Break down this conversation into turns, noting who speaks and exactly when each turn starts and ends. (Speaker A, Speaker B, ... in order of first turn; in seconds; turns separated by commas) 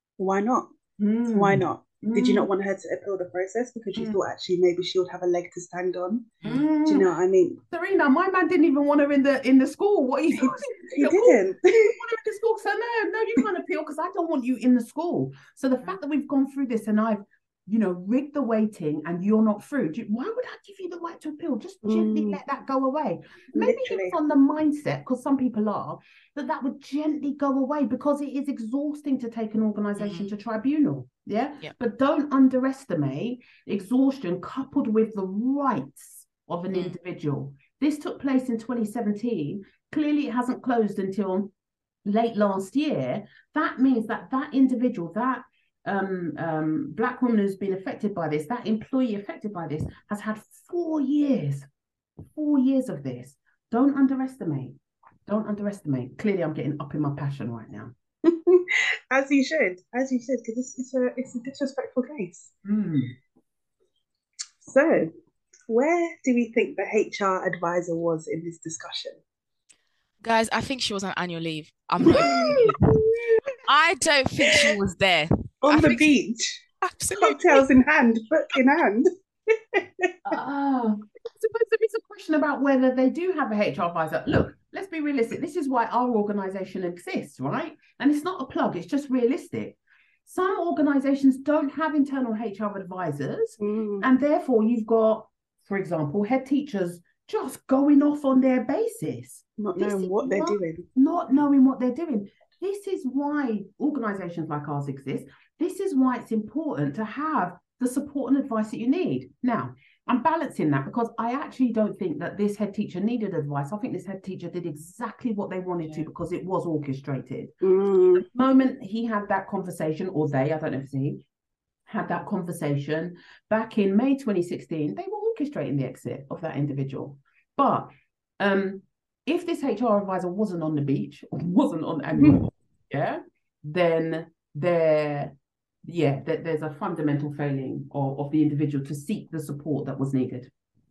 Speaker A: 0.2-0.7, Speaker B: 1.0-2.5, Speaker A: 1.3-6.3, Speaker C: 6.4-6.7, Speaker B: 6.4-7.1, Speaker A: 6.8-7.6, Speaker B: 7.7-41.5, Speaker A: 10.3-11.9, Speaker A: 21.8-22.4, Speaker A: 23.5-24.2, Speaker C: 30.0-30.3, Speaker B: 42.0-51.7, Speaker B: 52.3-57.9, Speaker A: 58.3-62.5, Speaker B: 62.6-63.1, Speaker A: 64.6-65.1, Speaker A: 65.7-69.2, Speaker C: 70.2-72.8, Speaker A: 72.1-73.0, Speaker C: 73.7-76.0, Speaker A: 75.6-76.6, Speaker C: 76.8-77.6, Speaker A: 77.2-79.1, Speaker A: 79.7-80.3, Speaker B: 80.3-117.5, Speaker A: 93.6-94.1, Speaker A: 99.6-100.8, Speaker A: 117.6-118.3, Speaker B: 118.1-121.2, Speaker B: 121.9-140.5